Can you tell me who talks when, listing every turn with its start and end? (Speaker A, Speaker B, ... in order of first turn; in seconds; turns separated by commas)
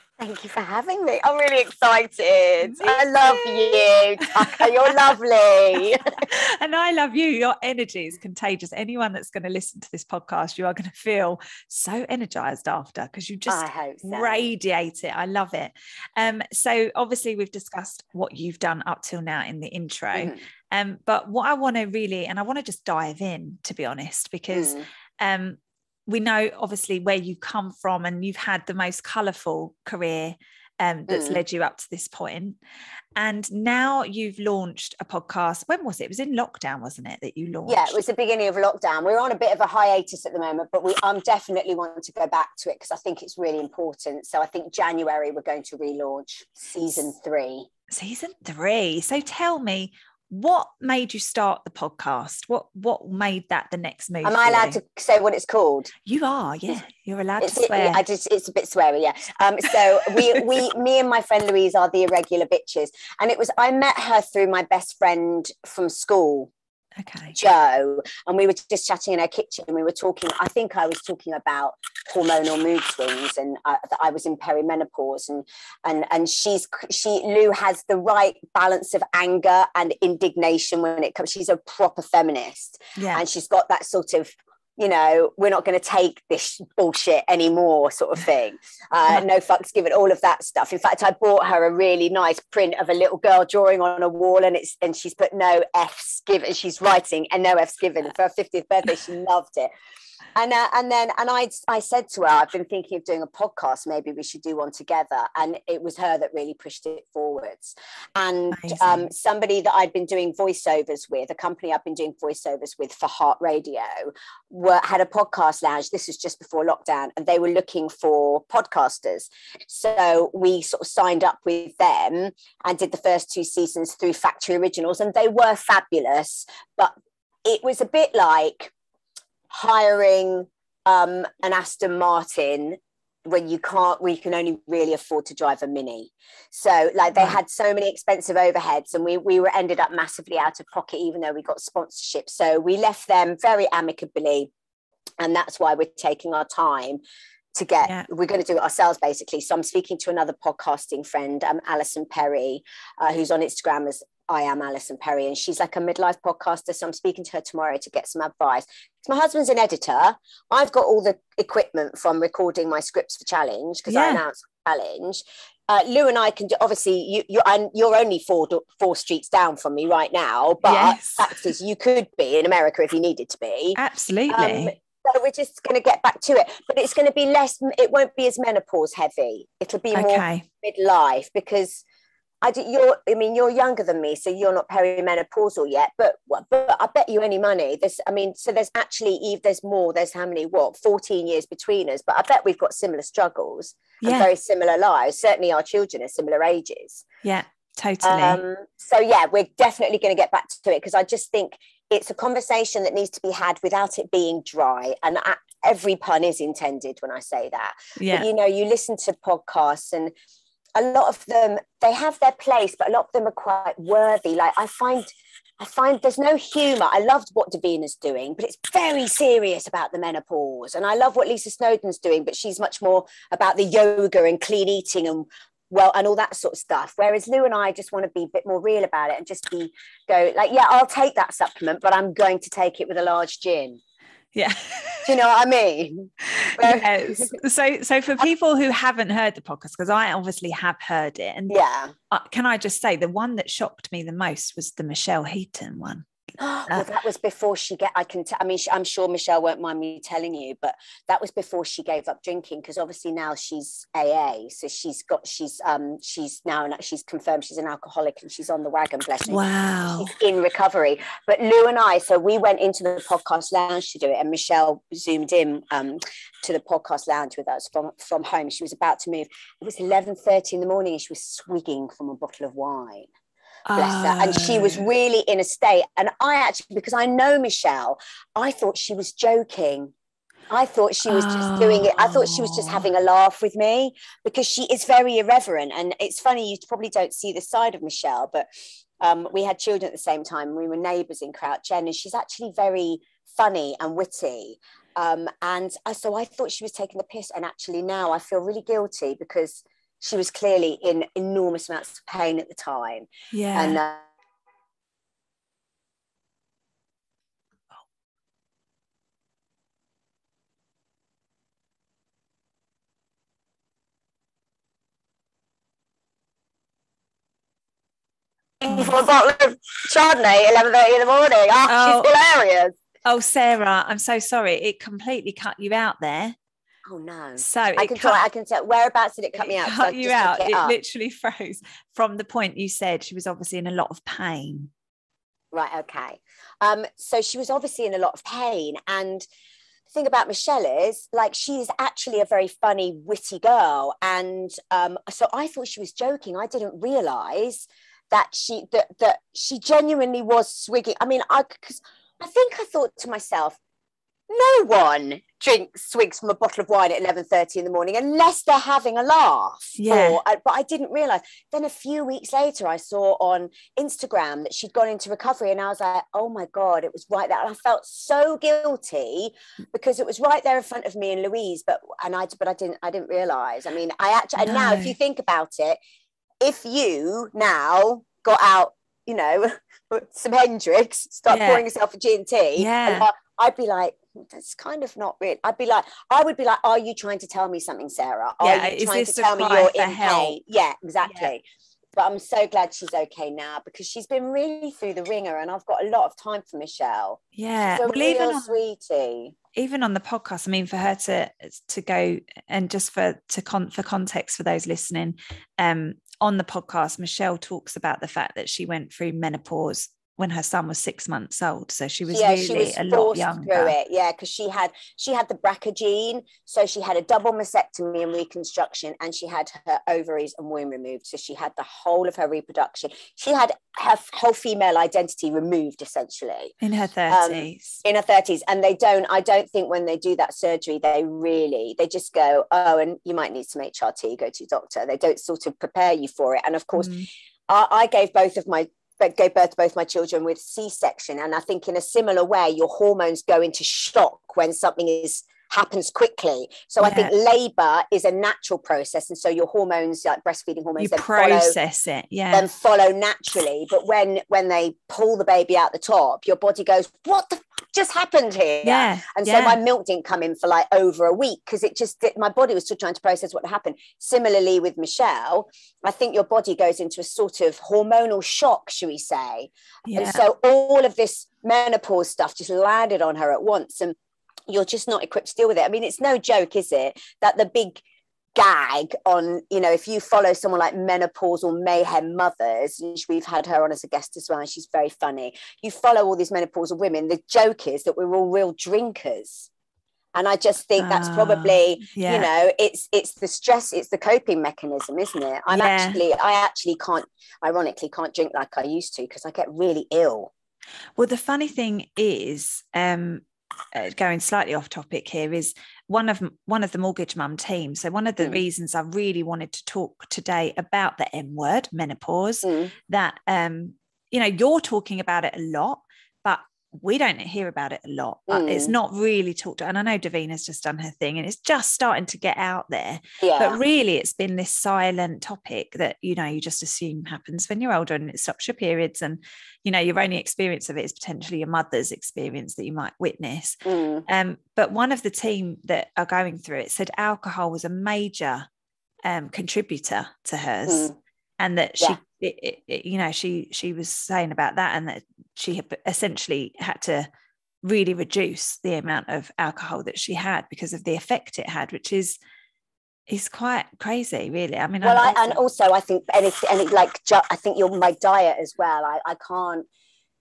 Speaker A: 0.2-6.0, Speaker B: 2.6-4.9, Speaker B: 6.2-32.6, Speaker A: 13.5-14.5, Speaker A: 20.1-20.4, Speaker A: 24.5-24.9, Speaker A: 31.1-31.4, Speaker B: 33.2-38.0, Speaker A: 37.7-47.7, Speaker B: 47.9-54.8, Speaker A: 54.2-55.9, Speaker B: 56.1-58.0, Speaker A: 57.4-66.5, Speaker B: 67.0-67.3, Speaker A: 67.3-99.7, Speaker B: 83.0-83.2, Speaker A: 100.3-126.9, Speaker B: 108.5-109.1, Speaker A: 127.5-128.7, Speaker A: 129.5-144.5, Speaker A: 145.2-147.0, Speaker A: 147.5-173.8, Speaker B: 163.9-164.2, Speaker B: 170.6-171.4, Speaker B: 173.8-174.7, Speaker A: 174.3-181.8, Speaker B: 179.9-180.5, Speaker A: 182.4-197.0, Speaker B: 194.0-194.3, Speaker B: 197.2-198.4, Speaker A: 198.0-210.1, Speaker B: 208.0-208.3, Speaker A: 210.8-233.8, Speaker B: 234.3-235.1, Speaker A: 235.1-237.3, Speaker B: 236.2-241.6, Speaker A: 241.5-241.9, Speaker B: 242.1-246.1, Speaker A: 246.4-259.4, Speaker B: 259.3-260.1, Speaker A: 260.0-273.1, Speaker B: 273.7-274.8, Speaker A: 273.8-279.9, Speaker A: 280.5-288.5, Speaker B: 281.1-282.9, Speaker A: 289.0-304.1, Speaker B: 303.3-303.8, Speaker A: 318.6-322.8, Speaker B: 321.7-322.1, Speaker B: 323.1-326.4, Speaker A: 326.9-330.8, Speaker B: 327.4-328.2, Speaker B: 329.4-334.7, Speaker A: 335.5-339.2, Speaker A: 339.9-353.6, Speaker A: 354.3-375.8, Speaker B: 359.8-360.2, Speaker B: 374.4-374.9, Speaker A: 376.4-391.4, Speaker B: 381.3-381.6, Speaker B: 382.6-383.1, Speaker B: 388.4-390.4, Speaker B: 391.1-391.3, Speaker A: 391.9-397.2, Speaker B: 397.4-398.6, Speaker A: 397.7-399.4, Speaker B: 399.6-413.7, Speaker A: 412.1-426.5, Speaker B: 426.6-427.8, Speaker A: 427.1-436.9, Speaker B: 436.8-437.1, Speaker A: 437.5-451.6, Speaker B: 446.8-447.1, Speaker B: 450.8-452.5, Speaker A: 452.3-473.9, Speaker B: 458.6-459.6, Speaker B: 469.9-470.2, Speaker A: 474.5-477.8, Speaker A: 478.4-489.5, Speaker A: 490.1-500.3, Speaker B: 490.8-492.3, Speaker B: 495.5-496.0, Speaker B: 501.0-538.5, Speaker A: 512.4-512.7, Speaker A: 518.3-518.7, Speaker A: 523.2-523.6, Speaker A: 533.7-534.0, Speaker B: 539.0-547.1, Speaker A: 540.7-540.9, Speaker B: 547.6-552.2, Speaker B: 553.1-555.4, Speaker A: 554.8-559.7